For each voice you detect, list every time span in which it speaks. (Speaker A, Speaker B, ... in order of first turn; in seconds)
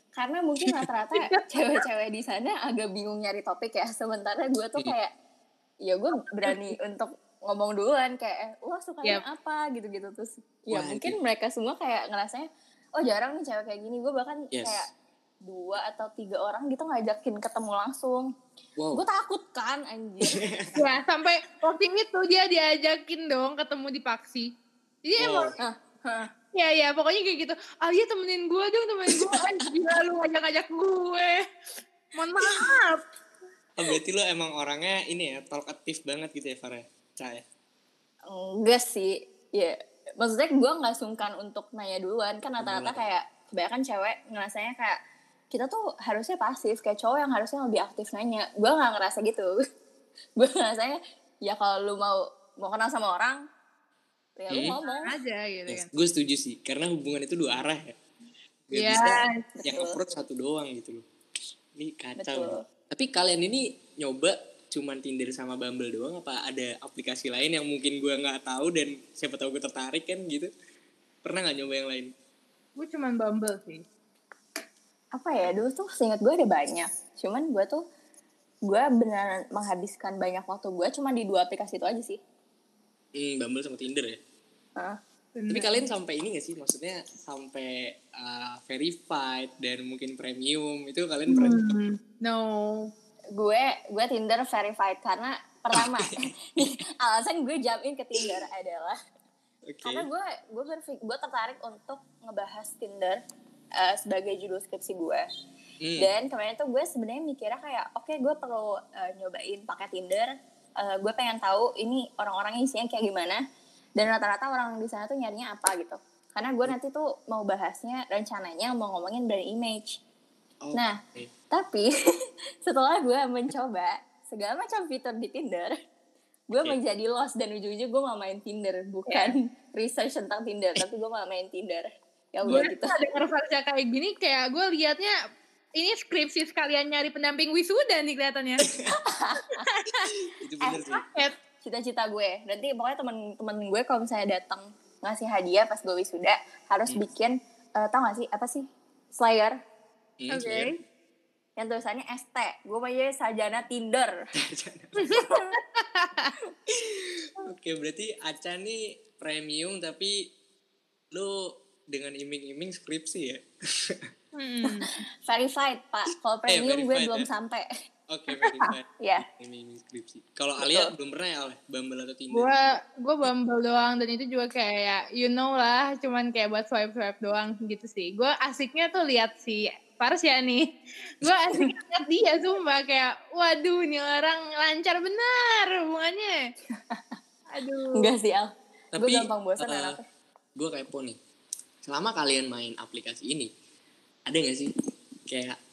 Speaker A: 0.2-5.1, 5.8-14.9, 15.5-18.3, 18.9-20.4, 25.6-26.3, 38.3-45.0, 45.5-49.5, 50.4-53.4, 54.4-55.2, 59.0-60.0, 62.2-62.6, 75.2-77.8, 78.7-82.2, 93.4-99.0, 99.8-103.2, 103.8-105.3, 106.0-113.4, 114.0-120.0, 121.5-121.9, 122.7-125.8, 126.5-132.9, 139.0-139.7, 141.6-149.6, 151.6-154.1, 155.1-155.6, 164.7-167.7, 169.0-169.2, 170.6-170.9, 186.9-187.2, 187.9-190.1
Speaker B: 10.7-11.2, 14.5-14.8, 18.8-19.0, 20.3-20.7, 25.2-25.6, 33.8-37.4, 42.6-43.0, 54.5-54.8, 55.7-58.0, 58.7-61.0, 61.8-70.5, 71.2-72.1, 83.2-84.2, 85.5-91.6, 95.7-96.7, 99.7-100.1, 105.8-106.1, 120.6-121.3, 140.3-141.1, 150.2-150.7, 154.4-155.1, 156.7-160.2, 161.1-164.1, 166.5-167.3, 168.1-172.6, 188.9-190.0, 190.6-191.2, 191.8-193.5, 194.3-194.7, 195.3-195.6
Speaker C: 20.8-24.5, 25.1-25.6, 26.5-31.4, 32.1-33.0, 54.8-55.9, 58.7-59.4, 72.8-73.8, 85.4-85.8, 91.3-92.9, 129.1-129.3, 132.5-135.1, 135.8-138.7, 139.5-140.1, 141.0-141.3, 150.3-150.7, 155.0-156.3, 164.4-164.9, 172.3-180.7, 181.2-186.4, 187.5-188.1